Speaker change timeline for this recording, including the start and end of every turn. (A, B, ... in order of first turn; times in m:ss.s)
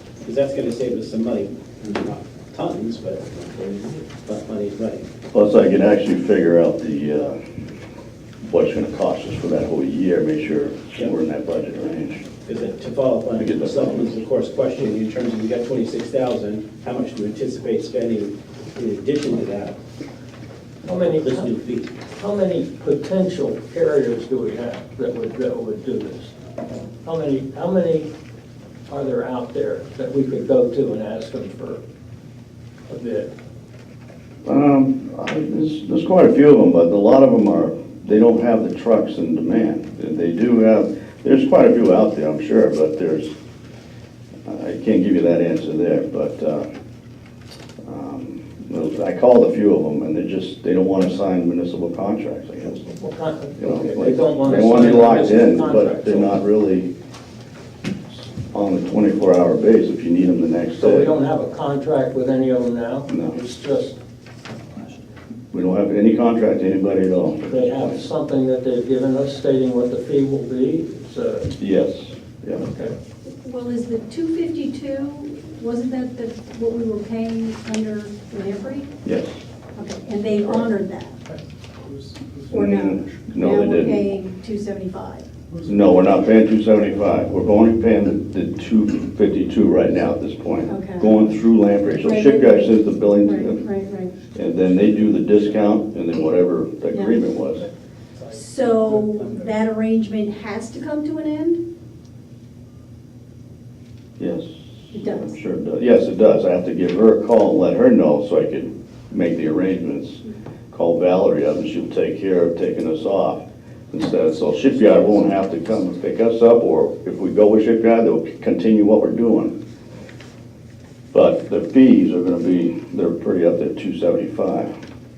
0:00.2-0:05.0 A
0:05.3-0:07.4 B
0:08.4-0:12.2 B
0:12.4-0:19.8 A
0:13.3-0:14.1 B
0:20.8-0:21.5 C
0:21.0-0:21.9 A
0:22.1-0:26.3 C
0:27.0-0:28.1 C
0:28.9-0:31.8 C
0:32.9-0:33.3 C
0:34.4-0:43.3 B
0:44.4-0:46.6 B
0:47.8-0:52.8 B
0:52.8-0:56.4 C
0:53.6-0:56.9 B
0:58.5-1:01.1 B
1:00.8-1:04.0 C
1:03.1-1:03.4 B
1:05.5-1:08.0 B
1:07.4-1:11.5 C
1:11.6-1:12.6 B
1:12.6-1:12.9 C
1:13.2-1:18.9 D
1:19.0-1:19.4 B
1:19.7-1:21.2 D
1:22.5-1:24.1 B
1:22.5-1:25.3 D
1:25.6-1:33.6 B
1:30.7-1:31.2 D
1:31.9-1:34.3 D
1:34.3-1:37.7 B
1:36.9-1:37.2 D
1:38.2-1:41.6 D
1:44.2-1:59.5 B
1:44.9-1:45.3 D
2:01.1-2:04.7 B